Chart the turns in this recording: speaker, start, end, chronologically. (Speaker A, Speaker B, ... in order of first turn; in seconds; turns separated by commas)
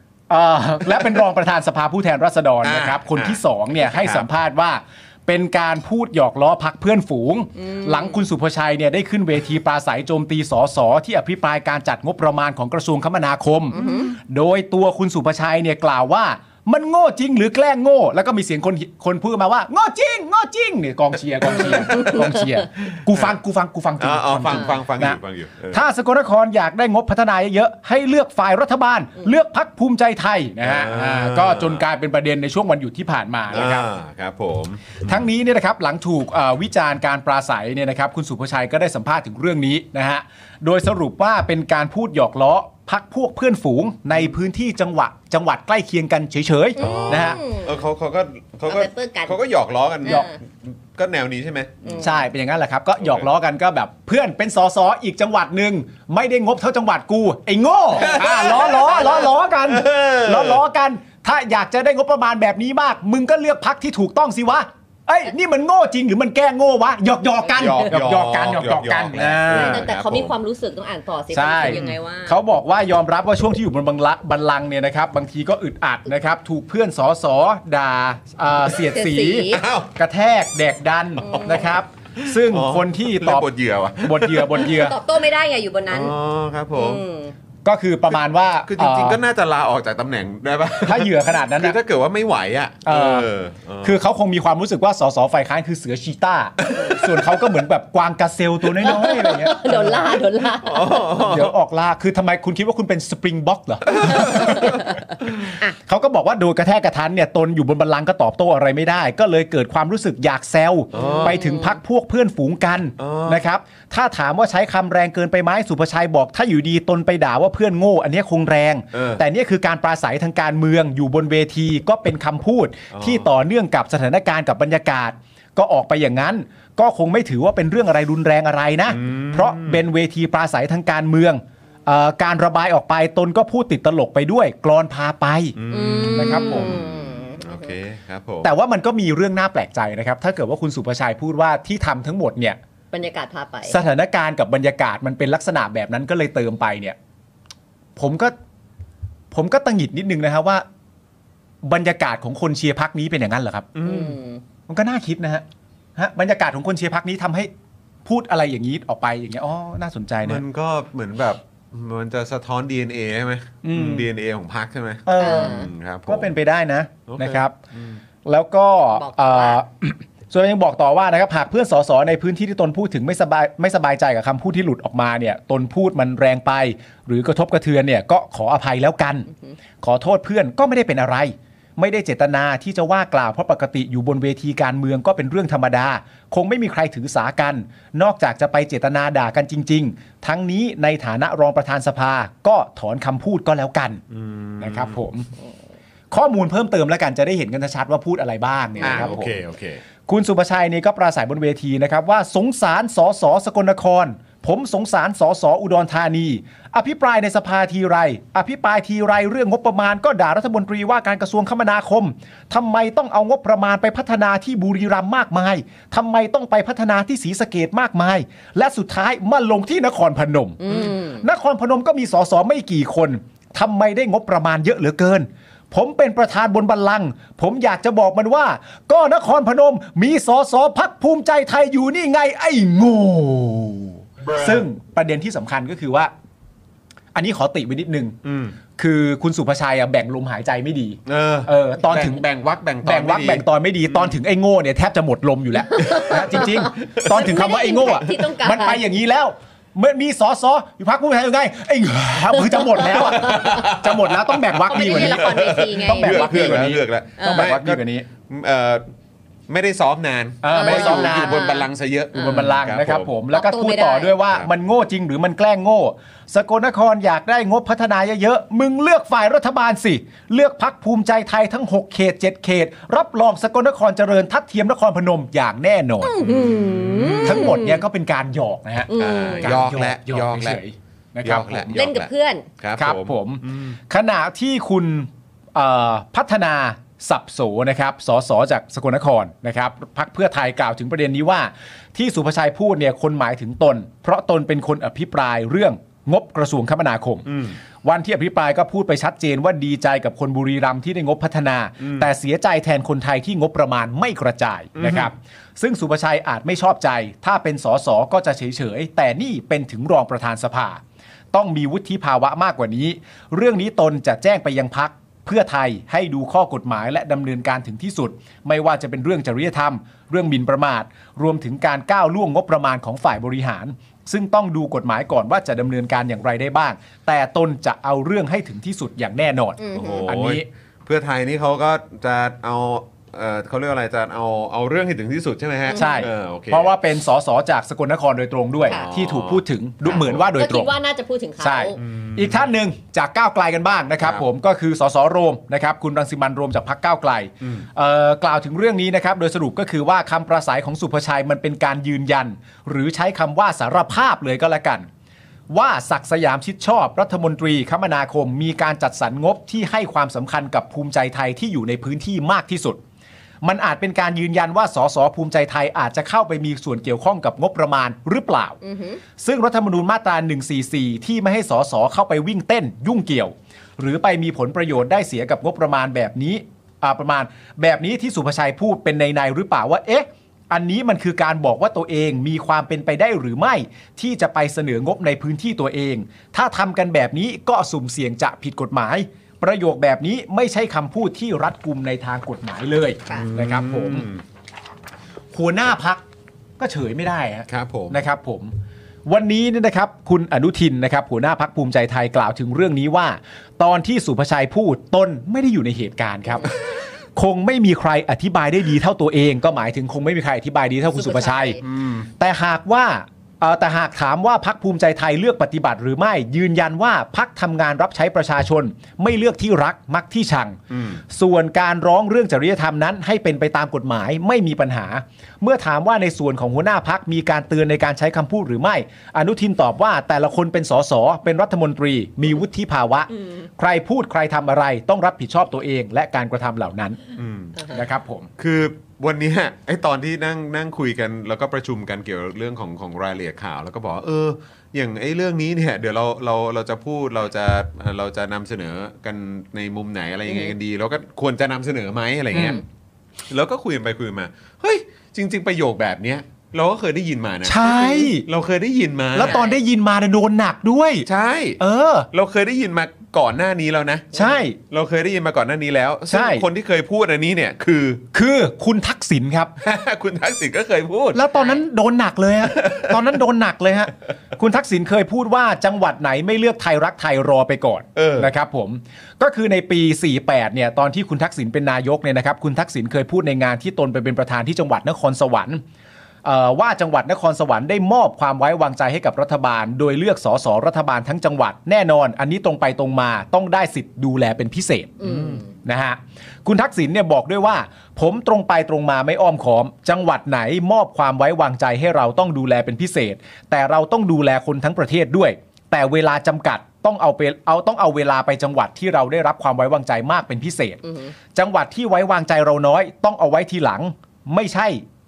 Speaker A: 0.3-25.2, Speaker B: 2.6-4.2, Speaker C: 7.6-8.2, Speaker C: 13.7-14.1, Speaker B: 24.0-25.8, Speaker A: 25.7-33.9, Speaker B: 30.6-31.8, Speaker B: 33.5-35.1, Speaker A: 35.0-47.4, Speaker C: 46.8-47.8, Speaker B: 46.8-52.0, Speaker C: 48.7-49.4, Speaker C: 50.0-50.4, Speaker C: 51.8-52.1, Speaker A: 52.0-69.8, Speaker B: 53.0-53.3, Speaker B: 58.0-60.6, Speaker C: 58.0-59.2, Speaker B: 67.5-70.3, Speaker C: 69.2-72.4, Speaker A: 71.3-83.5, Speaker B: 71.6-72.0, Speaker C: 78.8-79.6, Speaker B: 79.5-79.9, Speaker C: 81.2-81.7, Speaker B: 81.3-84.7, Speaker A: 84.0-85.0, Speaker C: 84.5-86.1, Speaker B: 85.9-87.0, Speaker C: 86.7-87.3, Speaker A: 87.7-89.2, Speaker B: 88.6-94.0, Speaker A: 90.8-91.8, Speaker A: 92.8-93.3, Speaker A: 93.8-100.1, Speaker B: 96.7-97.0, Speaker C: 98.8-101.1, Speaker B: 100.6-101.5, Speaker A: 101.2-104.8, Speaker B: 104.0-104.7, Speaker C: 104.3-104.8, Speaker A: 105.8-135.6, Speaker B: 110.9-111.4, Speaker C: 110.9-111.8, Speaker B: 113.0-113.4, Speaker B: 118.9-119.2, Speaker B: 122.9-123.2, Speaker B: 128.9-129.8, Speaker B: 135.6-138.5, Speaker C: 135.7-137.7, Speaker A: 136.1-136.8, Speaker A: 138.4-142.6, Speaker C: 142.9-143.8, Speaker A: 143.7-147.0, Speaker A: 148.0-148.3, Speaker A: 149.3-150.6, Speaker A: 151.6-153.7, Speaker B: 153.8-154.2, Speaker C: 153.8-154.4, Speaker A: 154.7-155.4, Speaker A: 156.0-157.5, Speaker A: 158.1-160.4, Speaker B: 160.2-166.3, Speaker A: 163.6-164.1, Speaker A: 165.1-167.5, Speaker C: 165.2-165.7, Speaker B: 167.1-168.0, Speaker A: 168.3-179.3, Speaker C: 168.9-169.6, Speaker A: 179.8-194.0, Speaker B: 194.1-194.9, Speaker A: 194.6-195.3, Speaker A: 196.1-199.3, Speaker C: 198.8-199.1, Speaker B: 198.8-199.8, Speaker A: 200.1-236.1, Speaker C: 220.6-221.2, Speaker B: 234.3-234.6, Speaker A: 237.1-238.2, Speaker B: 238.2-238.6, Speaker A: 238.8-242.3, Speaker B: 241.1-244.2, Speaker A: 242.8-258.1, Speaker C: 245.7-248.8, Speaker B: 245.8-246.4, Speaker B: 252.9-258.9, Speaker C: 254.7-257.5, Speaker B: 259.5-263.1, Speaker A: 260.4-261.5, Speaker C: 260.5-262.4, Speaker A: 262.1-276.1, Speaker C: 263.3-264.2, Speaker C: 276.0-277.8, Speaker B: 276.2-277.5, Speaker A: 277.2-281.8, Speaker C: 278.9-279.7, Speaker B: 278.9-280.6, Speaker B: 281.2-283.7, Speaker C: 281.7-282.5, Speaker A: 282.8-297.3, Speaker B: 297.3-297.6, Speaker A: 297.8-310.8, Speaker B: 301.8-302.1, Speaker B: 304.8-305.1, Speaker A: 311.3-330.5, Speaker C: 329.6-330.1, Speaker B: 329.7-336.7, Speaker C: 335.7-336.1, Speaker A: 335.7-340.7, Speaker B: 338.7-340.2, Speaker C: 340.4-341.8, Speaker A: 341.4-354.9, Speaker B: 341.8-342.5, Speaker A: 355.5-362.8, Speaker A: 363.4-368.6, Speaker C: 368.6-369.0, Speaker A: 369.2-394.1, Speaker B: 393.1-394.2, Speaker A: 395.3-396.1, Speaker A: 396.6-398.5, Speaker B: 397.5-398.0, Speaker A: 399.1-406.6, Speaker A: 407.2-411.6, Speaker C: 410.9-411.6, Speaker B: 411.6-412.1, Speaker A: 412.2-437.0, Speaker B: 420.7-421.0, Speaker B: 437.2-437.6, Speaker A: 437.7-438.3, Speaker B: 438.4-452.6, Speaker C: 450.3-450.5, Speaker A: 452.3-452.6, Speaker B: 453.3-459.4, Speaker A: 457.4-458.3, Speaker A: 459.1-461.1, Speaker C: 459.2-459.6, Speaker B: 461.1-461.6, Speaker A: 461.6-462.1, Speaker B: 462.1-468.0, Speaker A: 464.1-464.6, Speaker A: 466.1-466.4, Speaker A: 468.1-469.5, Speaker B: 469.6-471.2, Speaker A: 471.1-485.6, Speaker C: 471.4-471.6, Speaker B: 472.5-473.0, Speaker B: 478.0-478.3, Speaker A: 486.2-495.0, Speaker C: 495.0-495.5, Speaker B: 495.0-495.4, Speaker A: 495.6-510.8, Speaker C: 510.8-511.1, Speaker A: 511.3-514.8